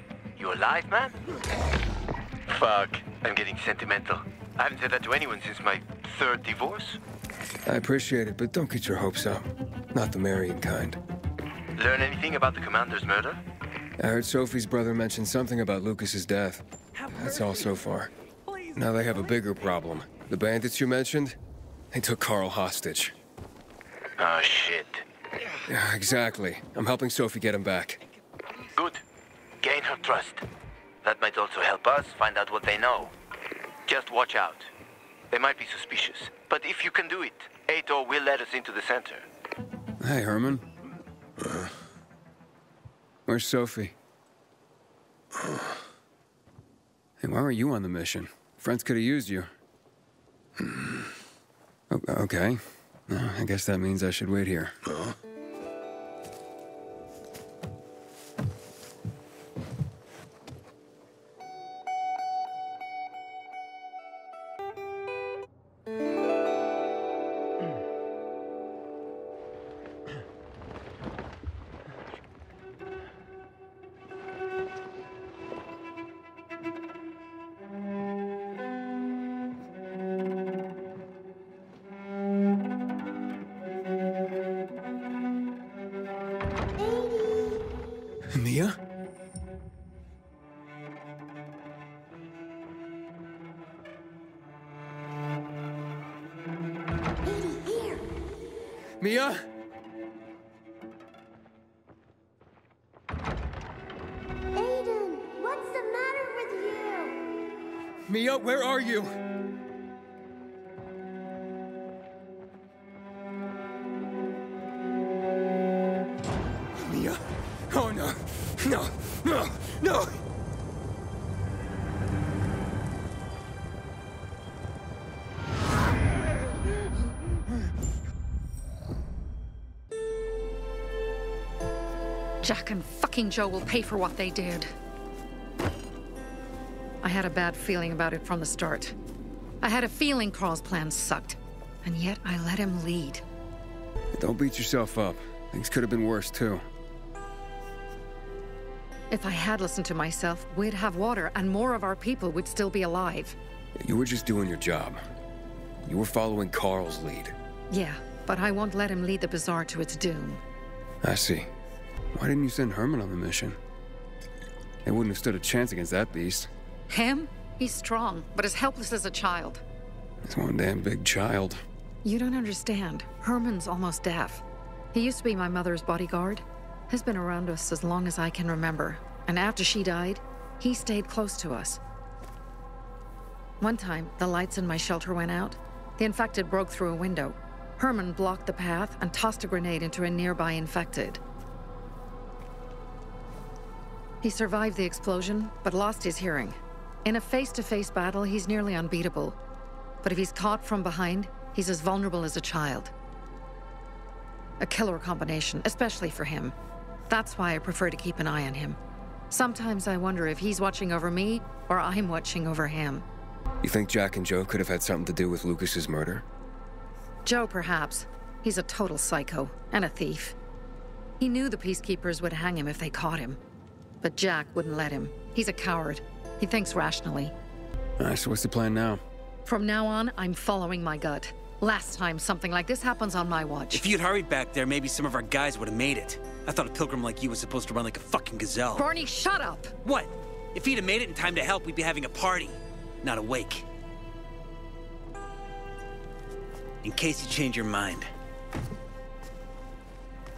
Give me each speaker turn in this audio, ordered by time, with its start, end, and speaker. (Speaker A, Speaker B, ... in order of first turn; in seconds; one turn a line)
Speaker A: 0.4-1.2
Speaker A: 2.5-7.0
Speaker B: 7.7-11.0
Speaker A: 11.8-13.4
Speaker B: 14.0-18.1
Speaker B: 18.7-21.4
Speaker B: 21.9-23.2
Speaker A: 24.2-25.1
Speaker B: 25.6-28.0
Speaker A: 28.7-29.0
Speaker A: 29.6-30.4
Speaker A: 31.0-33.1
Speaker A: 33.9-34.7
Speaker A: 35.3-39.2
Speaker B: 40.0-40.6
Speaker B: 43.2-44.0
Speaker B: 47.2-49.5
Speaker B: 50.6-51.1
Speaker B: 51.9-54.8
Speaker B: 88.3-88.8
Speaker C: 97.5-98.0
Speaker B: 99.0-99.5
Speaker C: 104.7-107.1
Speaker B: 108.1-109.2
Speaker B: 116.8-120.2
Speaker D: 132.4-134.7
Speaker D: 137.0-138.9
Speaker D: 139.6-143.2
Speaker B: 144.1-146.6
Speaker D: 149.1-153.4
Speaker B: 153.8-155.0
Speaker B: 155.8-157.3
Speaker D: 157.7-160.4
Speaker B: 161.0-161.5
Speaker B: 162.1-163.6
Speaker B: 164.8-166.5
Speaker D: 166.9-169.6
Speaker B: 170.2-171.6
Speaker D: 172.0-181.8
Speaker D: 183.6-191.2
Speaker D: 194.2-199.4
Speaker D: 200.0-202.9
Speaker D: 204.6-206.5
Speaker D: 207.1-208.8
Speaker D: 209.3-213.0
Speaker B: 213.6-216.2
Speaker D: 217.2-220.3
Speaker D: 221.2-223.4
Speaker D: 224.0-227.3
Speaker B: 228.0-229.0
Speaker D: 229.4-233.8
Speaker E: 233.7-238.9
Speaker D: 238.8-239.7
Speaker E: 239.8-243.6
Speaker E: 246.8-248.1